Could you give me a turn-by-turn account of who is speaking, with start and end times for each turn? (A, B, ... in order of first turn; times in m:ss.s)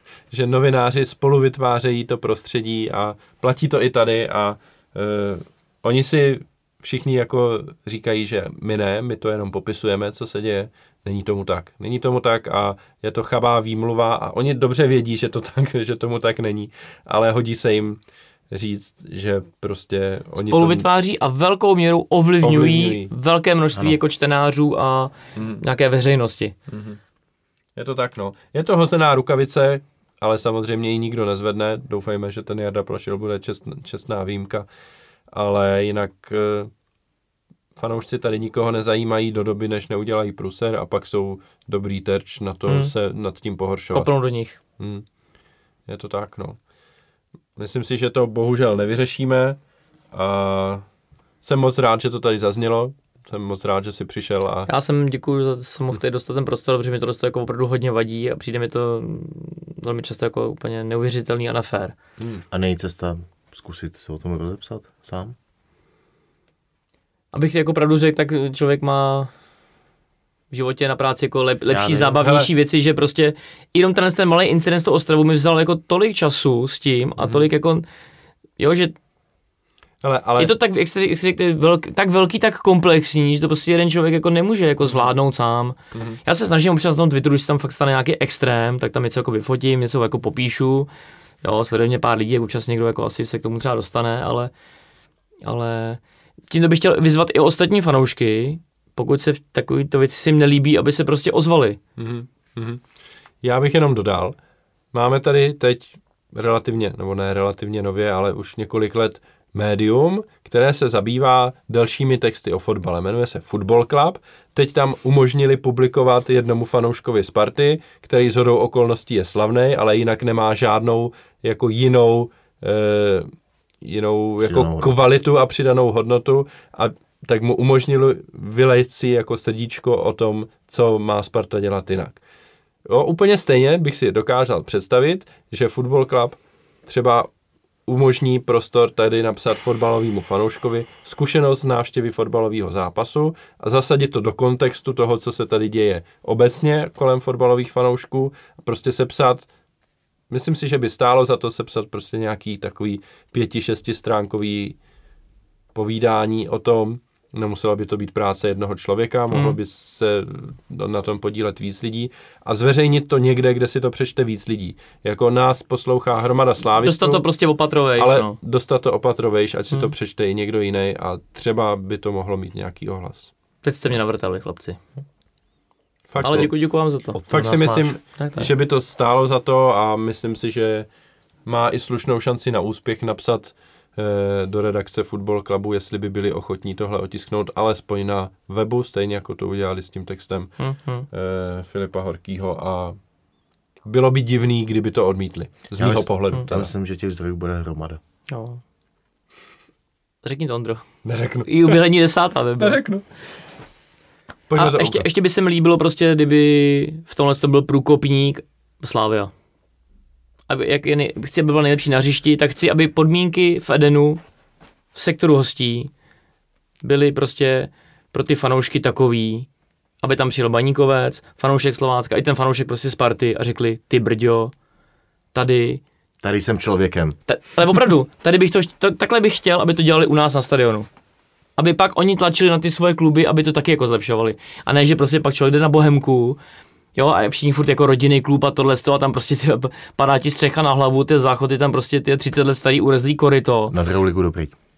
0:00.3-0:18.0 A
0:18.5-0:20.8 A
0:20.4-0:26.5 B
0:22.4-0:23.1 A
0:25.4-0:25.6 A
0:26.7-0:27.0 A
0:27.8-0:34.6 A
0:35.3-0:36.7 A
0:37.8-0:44.1 A
0:42.7-0:42.9 B
0:43.9-0:44.6 B
0:44.8-0:45.0 A
0:45.9-0:46.6 A
0:47.6-0:49.6 A
0:50.1-0:50.8 A
0:51.4-0:54.7 A
0:54.7-1:02.0 B
1:02.2-1:02.4 A
1:02.5-1:05.4 C
1:07.3-1:09.3 B
1:10.5-1:17.8 B
1:11.7-1:12.2 C
1:12.2-1:12.5 A
1:17.2-1:17.4 A
1:18.6-1:19.0 B
1:20.0-1:20.5 A
1:20.4-1:30.9 B
1:31.4-1:34.5 B
1:35.4-1:41.8 B
1:42.0-1:42.8 A
1:43.4-1:44.3 A
1:44.9-2:03.3 A
2:03.8-2:12.2 A
2:04.4-2:04.9 C
2:12.8-2:17.3 A
2:17.9-2:29.5 A
2:30.3-2:34.8 A
2:35.7-2:47.2 A
2:39.3-2:39.6 B
2:46.8-2:48.4 B
2:48.0-2:53.3 A
2:53.6-2:54.8 B
2:56.1-2:56.5 A
2:56.2-2:57.2 B
2:57.1-2:57.9 C
2:57.3-3:00.9 A
2:58.2-2:58.5 B
3:01.4-3:10.6 A
3:10.6-3:11.1 B
3:11.1-3:13.0 A
3:13.8-3:16.7 A
3:15.8-3:18.0 C
3:18.3-3:18.6 B
3:20.2-3:20.8 B
3:21.0-3:21.8 A
3:21.4-3:22.8 B
3:22.6-3:23.0 A
3:24.5-3:25.0 A
3:24.6-3:29.3 B
3:30.5-3:34.2 B
3:34.9-3:35.9 B
3:36.8-3:39.5 B
3:40.0-3:44.5 B
3:45.3-3:45.8 B
3:46.2-3:47.1 C
3:47.3-3:50.9 B
3:51.6-3:56.4 B
3:56.9-4:03.7 B
4:03.7-4:04.5 C